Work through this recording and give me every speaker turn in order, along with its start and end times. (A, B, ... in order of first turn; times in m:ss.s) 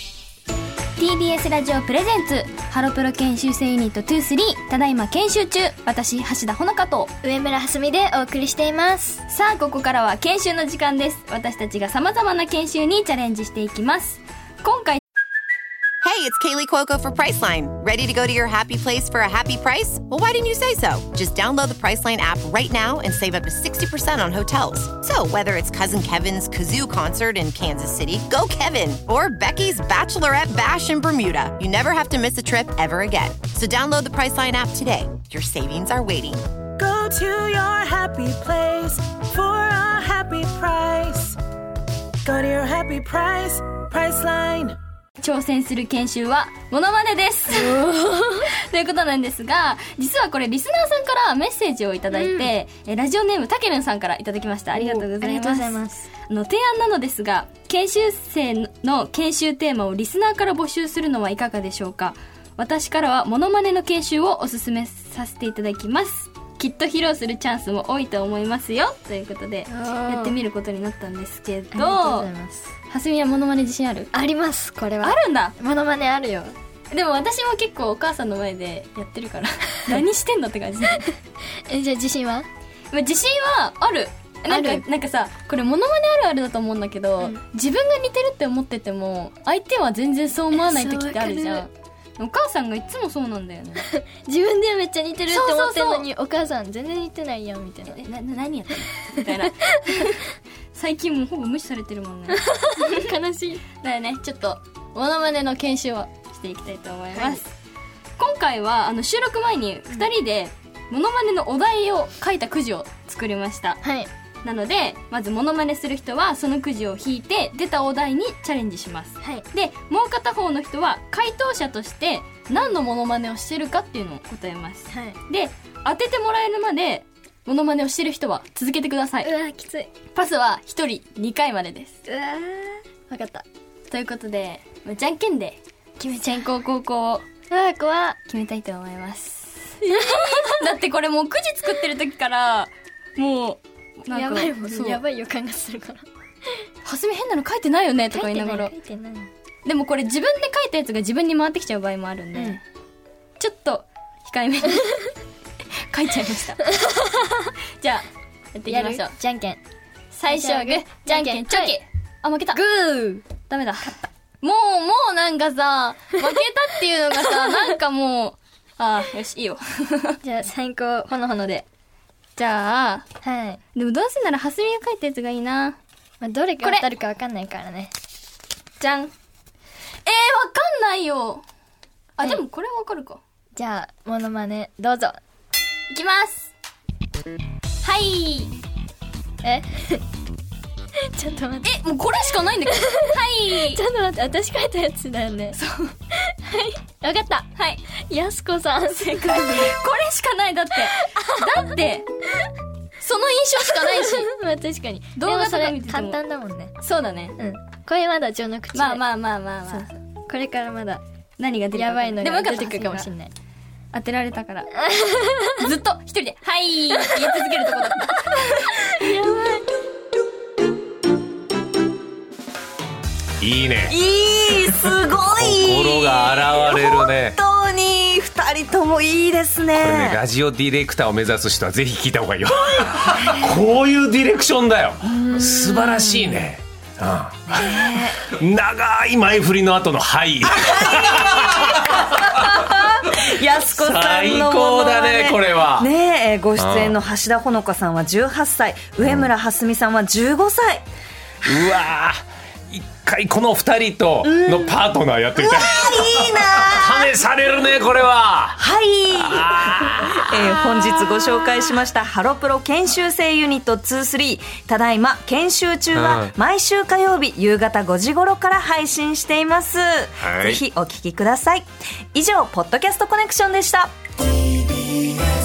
0:01.0-0:07.1 A
0:07.2-0:09.2 B
0:09.3-0:15.0 A
0:16.0-0:36.4 C
0:36.8-0:41.4 D
0:42.3-0:44.8 D
0:45.2-0:47.8 A
0:47.5-0:48.5 B
0:48.4-1:12.3 A
0:52.1-0:52.5 B
0:54.7-0:56.1 B
1:09.7-1:10.4 B
1:11.7-1:12.7 B
1:12.8-1:14.1 A
1:14.1-1:16.6 B
1:15.0-1:15.6 A
1:16.9-1:21.1 A
1:21.6-1:22.5 B
1:22.9-1:33.9 A
1:24.5-1:24.9 B
1:30.5-1:31.7 B
1:33.9-1:38.0 B
1:35.3-1:36.1 A
1:37.9-1:42.9 A
1:42.3-1:43.6 B
1:43.8-1:47.5 A
1:47.1-1:47.4 B
1:48.2-1:53.8 A
1:53.8-1:54.1 B
1:54.4-2:09.3 A
2:04.9-2:05.2 B
2:09.2-2:09.9 B
2:10.1-2:12.0 A
2:12.1-2:13.4 B
2:13.9-2:15.6 A
2:16.0-2:16.6 B
2:16.2-2:17.3 A
2:17.5-2:18.2 B
2:18.3-2:25.0 A
2:19.8-2:20.6 B
2:24.1-2:26.7 B
2:26.8-2:28.7 A
2:28.1-2:29.3 B
2:29.7-2:32.6 A
2:33.4-2:35.1 A
2:35.9-2:36.8 A
2:36.8-2:37.4 B
2:37.8-2:39.1 A
2:38.7-2:39.6 B
2:40.1-2:42.6 A
2:40.3-2:41.8 B
2:42.5-2:43.2 B
2:43.4-2:50.2 A
2:50.2-2:51.6 B
2:52.4-2:53.2 A
2:53.2-2:53.6 B
2:53.7-2:55.8 A
2:56.2-2:57.9 B
2:56.6-2:56.9 A
2:58.8-2:59.1 A
3:00.1-3:01.4 A
3:02.2-3:03.2 A
3:03.6-3:05.2 B
3:05.9-3:06.5 A
3:07.8-3:08.5 A
3:09.4-3:10.0 B
3:11.0-3:11.7 B
3:11.6-3:13.8 A
3:12.7-3:13.1 B
3:13.7-3:15.6 B
3:15.5-3:15.9 A
3:16.1-3:19.8 B
3:17.6-3:17.8 A
3:19.0-3:22.1 A
3:20.9-3:21.6 B
3:23.0-3:24.3 A
3:23.8-3:26.7 B
3:25.2-3:26.2 A
3:26.8-3:27.4 A
3:27.4-3:31.0 B
3:28.7-3:29.9 A
3:31.4-3:33.1 A
3:31.7-3:33.3 B
3:33.9-3:34.8 A
3:34.8-3:35.6 B
3:35.5-3:39.0 A
3:36.9-3:37.3 B
3:38.2-3:39.8 B
3:43.4-3:44.0 E
3:43.9-3:50.2 F
3:45.4-3:47.4 E
3:49.8-4:05.9 E
3:55.1-3:56.4 F
3:57.5-3:58.2 F
4:00.6-4:10.8 F
4:06.6-4:07.0 E
4:11.4-4:18.6 E
4:14.2-4:14.8 F
4:15.4-4:17.1 F
4:18.6-4:33.9 F
4:19.1-4:21.0 E
4:25.9-4:26.3 E
4:30.2-4:30.6 E